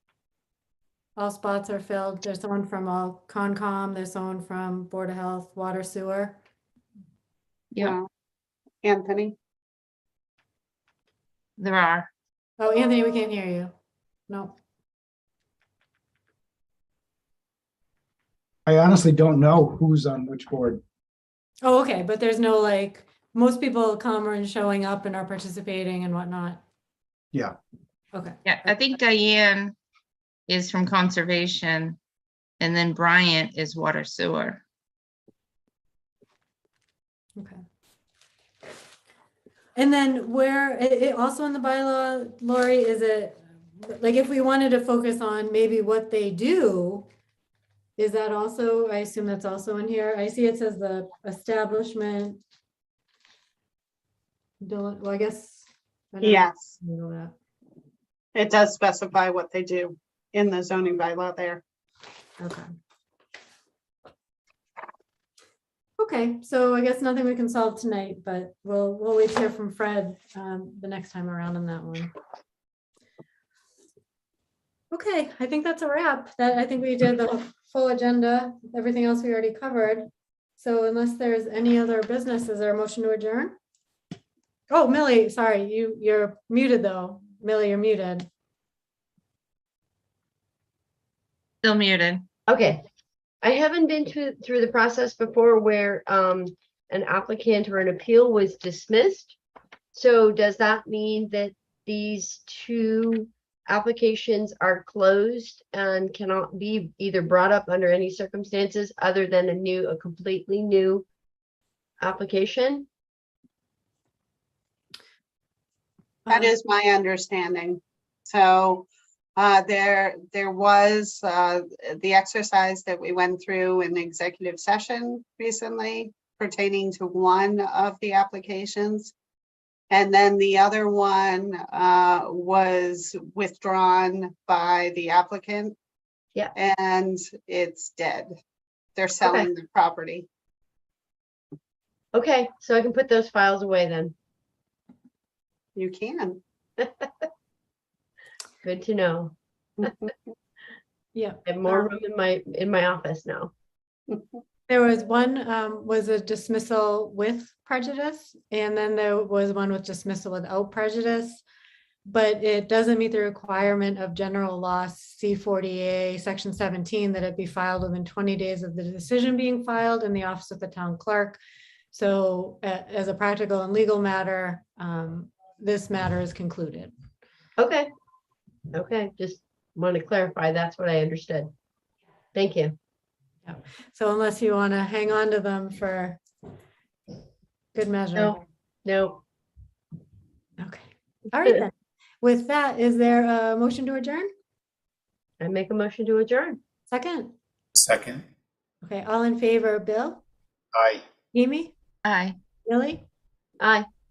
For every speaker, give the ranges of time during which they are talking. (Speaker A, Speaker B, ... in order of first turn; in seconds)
Speaker A: 1.2-6.4, 12.6-13.7, 14.3-14.6, 21.6-26.6, 28.1-28.7, 37.4-37.6, 39.8-47.1, 48.0-52.4, 54.6-57.4, 62.4-62.7, 66.0-72.1, 74.9-83.6, 84.7-88.3, 116.3-116.5, 151.2-151.9, 154.7-161.4, 162.1-171.4, 171.9-176.9, 183.5-186.2, 187.8-188.4, 190.6-194.3, 196.9-197.3, 198.8-200.2, 201.3-201.7, 202.7-203.1
Speaker B: 7.8-8.1, 8.8-9.3, 56.2-56.7, 58.4-61.6, 116.3-129.1, 129.9-135.8, 136.6-138.3, 139.0-140.3, 145.8-146.4
Speaker C: 11.6-12.1, 28.4-29.8, 30.5-32.0, 32.6-34.6, 91.6-92.3, 202.1-202.4
Speaker D: 18.7-20.8, 197.8-198.2, 200.8-201.0
Speaker E: 92.5-92.8, 93.4-99.4, 99.9-111.1, 112.0-112.9, 139.2-139.5, 142.1-144.2, 146.8-147.1, 148.6-149.9, 151.5-153.5, 177.6-177.9, 178.7-181.5, 182.3-182.8, 188.2-189.2, 191.4-191.7, 195.4-196.6, 203.6-203.9